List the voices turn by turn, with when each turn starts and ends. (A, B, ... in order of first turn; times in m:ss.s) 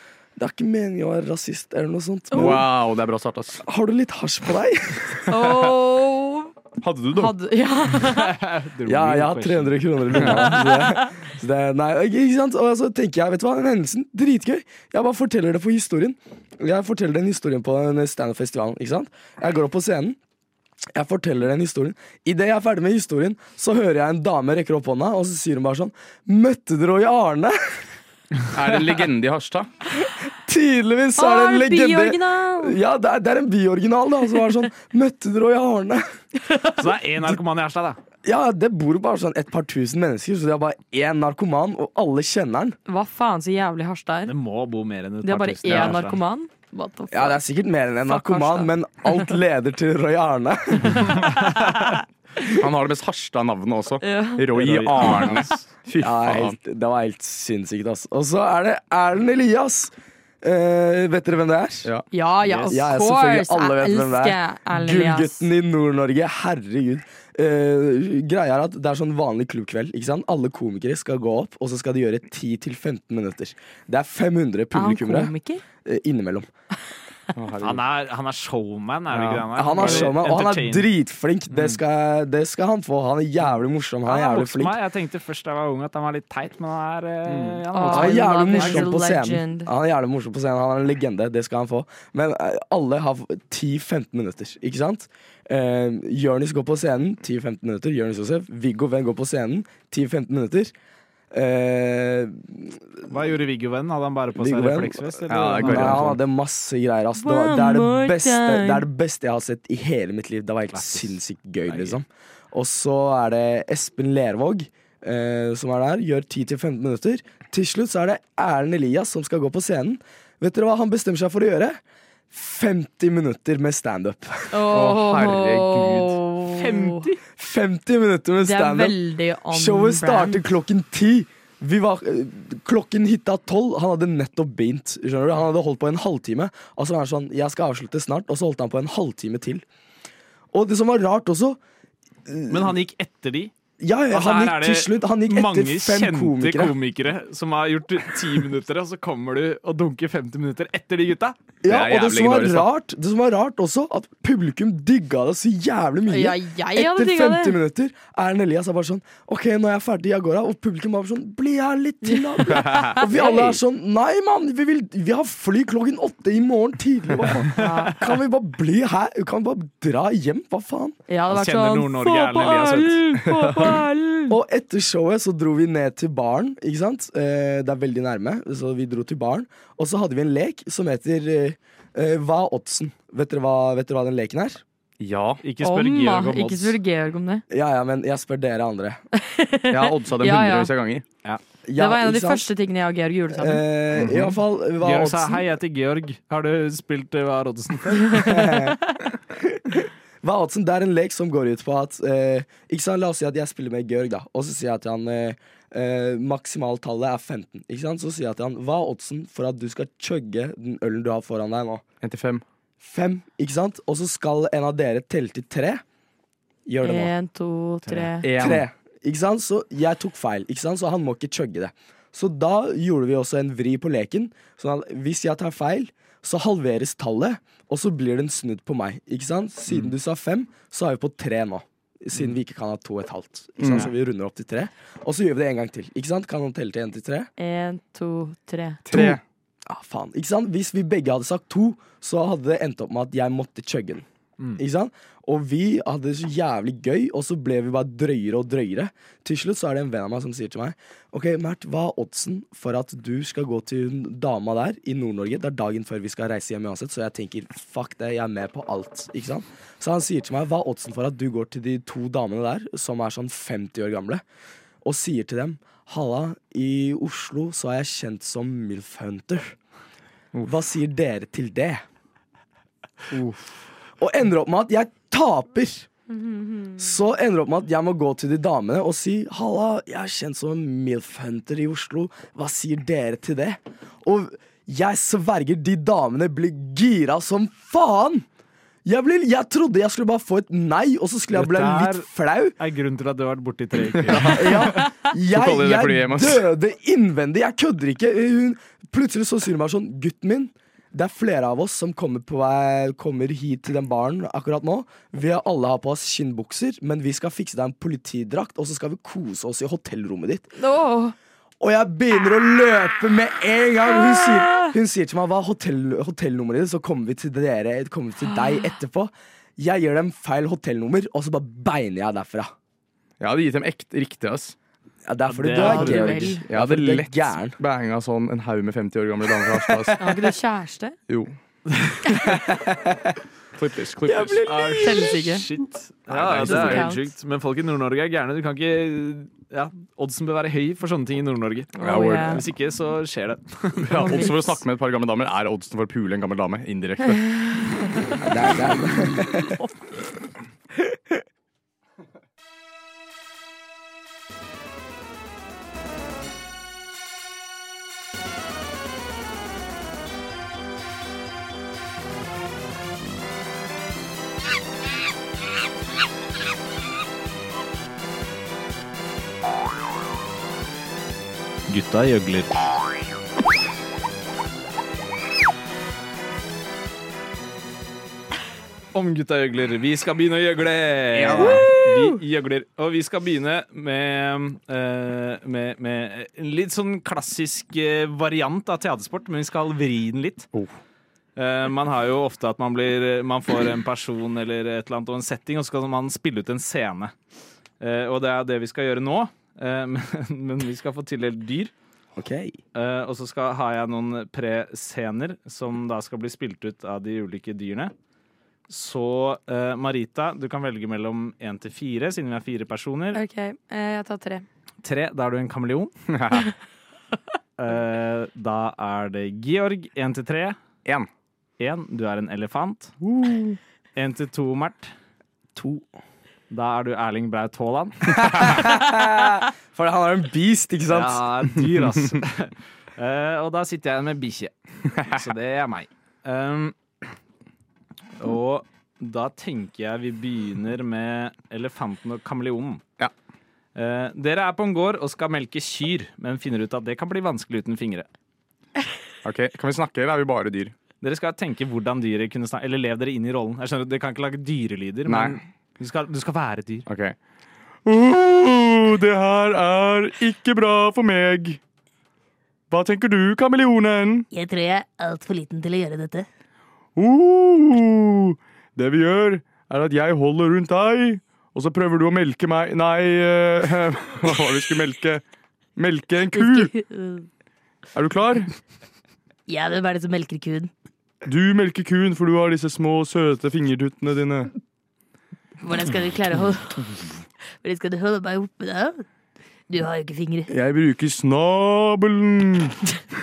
0:00.4-0:02.7 A
0:02.3-0:02.7 B
0:02.3-0:03.6 C
0:03.6-0:05.4 A
0:05.3-0:06.5 B
0:06.8-0:07.3 C
0:07.1-0:08.3 B
0:08.0-0:10.2 D
0:08.8-0:20.2 A
0:10.3-0:11.1 B
0:20.9-0:27.8 A
0:28.5-0:29.7 C
0:30.0-0:36.0 A
0:31.2-0:32.8 B
0:36.4-0:36.8 B
0:36.8-0:38.0 D
0:38.2-0:42.8 A
0:42.9-0:44.3 B
0:44.2-0:46.2 D
0:45.2-0:47.4 B
0:47.1-0:51.2 A
0:48.0-0:49.3 B
0:52.4-0:56.6 C
0:54.0-0:54.4 B
0:54.5-0:55.6 D
0:55.0-0:55.4 B
0:56.0-1:01.9 A
1:02.1-1:05.5 B
1:02.4-1:02.7 D
1:02.7-1:15.3 A
1:14.7-1:15.6 B
1:15.8-1:16.5 A
1:17.3-1:17.8 C
1:17.6-1:20.9 D
1:19.1-1:20.1 C
1:19.5-1:24.8 A
1:21.5-1:21.8 D
1:24.0-1:28.9 D
1:27.3-1:27.6 C
1:27.7-1:29.7 B
1:27.8-1:40.7 A
1:41.3-1:42.8 A
1:43.1-1:46.2 D
1:44.3-2:01.8 A
1:45.3-1:46.1 C
1:47.2-1:48.8 B
1:50.7-1:52.0 D
2:02.3-2:04.6 A
2:04.5-2:07.1 B
2:04.7-2:06.2 C
2:06.5-2:07.2 D
2:07.4-2:09.0 A
2:08.4-2:10.4 B
2:09.5-2:19.6 A
2:20.5-2:21.6 A
2:22.2-2:22.8 A
2:22.5-2:23.5 D
2:23.8-2:26.8 A
2:24.1-2:31.4 D
2:31.6-2:51.0 A
2:31.6-2:32.7 C
2:36.1-2:37.6 B
2:42.0-2:43.5 B
2:47.5-2:47.9 D
2:47.5-2:48.1 B
2:51.1-2:54.4 B
2:51.3-2:53.0 D
2:53.2-2:53.8 C
2:54.3-3:04.6 A
3:05.0-3:05.4 C
3:05.4-3:06.8 D
3:05.6-3:07.4 B
3:07.5-3:09.0 A
3:09.2-3:10.7 B
3:09.7-3:11.0 C
3:11.6-3:12.5 A
3:11.8-3:13.6 B
3:13.3-3:15.4 A
3:14.0-3:14.3 C
3:14.8-3:18.2 D
3:18.1-3:19.0 B
3:18.1-3:18.8 A
3:19.3-3:31.8 A
3:32.0-3:32.4 C
3:32.8-3:35.8 A
3:36.6-3:37.1 A
3:36.8-3:38.2 B
3:38.2-3:38.6 C
3:38.2-3:57.3 A
3:53.6-3:53.9 C
3:57.4-3:58.8 B
3:58.9-3:59.2 C
3:58.9-4:04.0 A
4:04.6-4:24.2 A
4:24.8-4:29.6 A
4:30.4-4:31.8 A
4:33.1-4:33.4 C
4:34.0-4:35.9 A
4:36.1-4:36.8 B
4:36.8-4:48.2 A
4:48.8-4:52.6 A
4:51.3-4:54.6 D
4:54.0-4:56.4 C
4:54.1-5:10.5 A
5:10.6-5:11.1 B
5:11.6-5:22.5 A
5:14.2-5:14.7 B
5:18.3-5:18.6 B
5:23.2-5:24.5 C
5:25.0-5:27.6 A
5:25.2-5:26.4 D
5:25.6-5:26.4 B
5:25.8-5:30.0 C
5:29.5-5:30.1 A
5:30.0-5:31.0 B
5:31.1-5:31.3 C
5:32.5-5:33.1 A
5:33.5-5:34.8 C
5:34.0-5:35.4 A
5:34.5-5:44.2 D
5:34.7-5:35.5 B
5:36.1-5:36.9 C
5:36.4-5:37.0 B
5:41.8-5:42.4 B
5:41.8-5:42.4 C
5:43.8-5:47.4 C
5:43.9-5:44.6 B
5:48.2-5:49.6 A
6:11.7-6:12.5 D
6:18.9-6:30.5 D
6:21.2-6:21.6 C
6:31.4-6:37.1 D
6:37.8-6:41.7 D
6:42.1-6:42.6 A
6:42.7-6:47.9 D
6:48.7-6:53.2 D
6:53.1-6:54.4 B
6:54.8-6:55.9 D
6:56.1-6:56.5 C
6:57.6-7:00.6 D
7:01.6-7:02.9 D
7:03.0-7:03.6 C
7:03.9-7:04.9 D
7:05.5-7:05.8 A
7:06.5-7:08.6 D
7:08.2-7:11.2 A
7:10.9-7:16.8 D
7:18.2-7:22.8 D
7:23.7-7:28.1 D
7:29.2-7:30.7 C
7:31.0-7:36.9 D
7:35.0-7:35.4 C
7:36.9-7:37.2 C
7:37.8-7:41.6 C
7:42.7-7:44.3 C
7:44.3-7:46.2 E
7:47.0-7:55.2 C
7:55.8-7:56.7 C
7:56.3-7:57.3 E
7:57.9-7:58.5 C
7:59.5-8:00.7 E
8:01.2-8:04.5 C
8:05.6-8:07.0 E
8:07.6-8:09.0 E
8:09.7-8:10.5 E
8:10.5-8:12.8 C